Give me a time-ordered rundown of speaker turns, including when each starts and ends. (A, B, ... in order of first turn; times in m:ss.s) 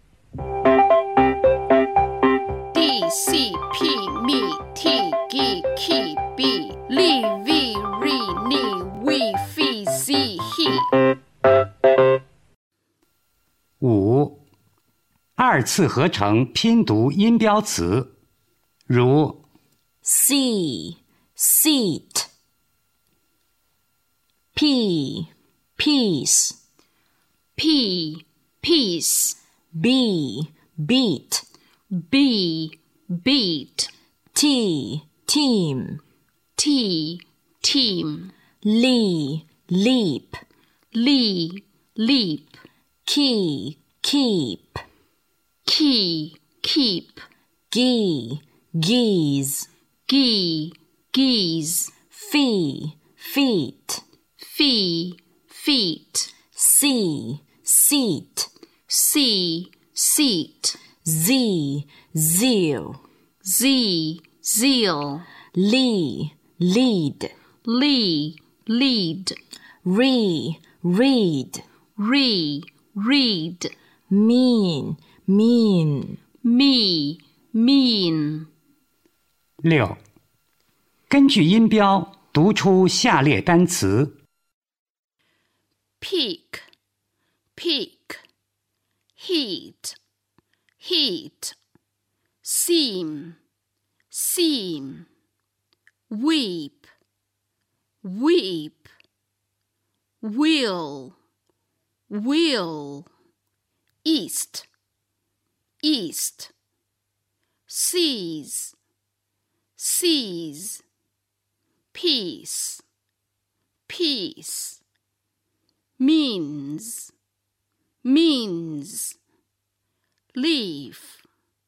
0:02.7-0:10.9 A
0:13.8-0:14.4 B
0:15.4-0:18.1 B
0:18.9-0:19.4 B
0:20.0-0:22.3 C
0:24.5-0:26.6 C
0:27.6-0:29.4 A
0:29.7-0:31.4 C
0:31.9-0:33.9 A
0:34.3-0:36.0 C
0:36.6-0:38.3 A
0:38.6-0:40.4 C
0:40.9-0:42.6 A
0:43.0-0:44.8 C
0:45.6-0:47.2 A
0:47.7-0:49.7 C
0:50.1-0:51.9 A
0:52.1-0:54.0 C
0:54.4-0:56.3 A
0:56.5-0:58.5 C
0:58.9-1:00.8 A
1:01.0-1:03.0 C
1:03.4-1:05.3 A
1:05.5-1:07.3 C
1:07.6-1:09.3 A
1:09.8-1:11.6 C
1:12.0-1:13.7 A
1:14.1-1:16.2 C
1:16.4-1:18.5 A
1:19.6-1:20.0 B
1:21.1-1:24.2 B
1:26.0-1:26.6 A
1:27.5-1:28.2 A
1:29.2-1:30.0 A
1:30.8-1:31.6 A
1:32.4-1:33.4 A
1:34.1-1:35.1 A
1:36.1-1:36.9 A
1:38.0-1:38.9 A
1:40.2-1:41.2 A
1:42.1-1:43.1 A
1:44.0-1:44.7 A
1:45.8-1:46.5 A
1:47.7-1:48.7 A
1:49.8-1:50.8 A
1:51.9-1:52.8 A
1:53.9-1:54.8 A
1:56.0-1:57.1 A
1:58.0-1:59.2 A
2:00.3-2:01.2 A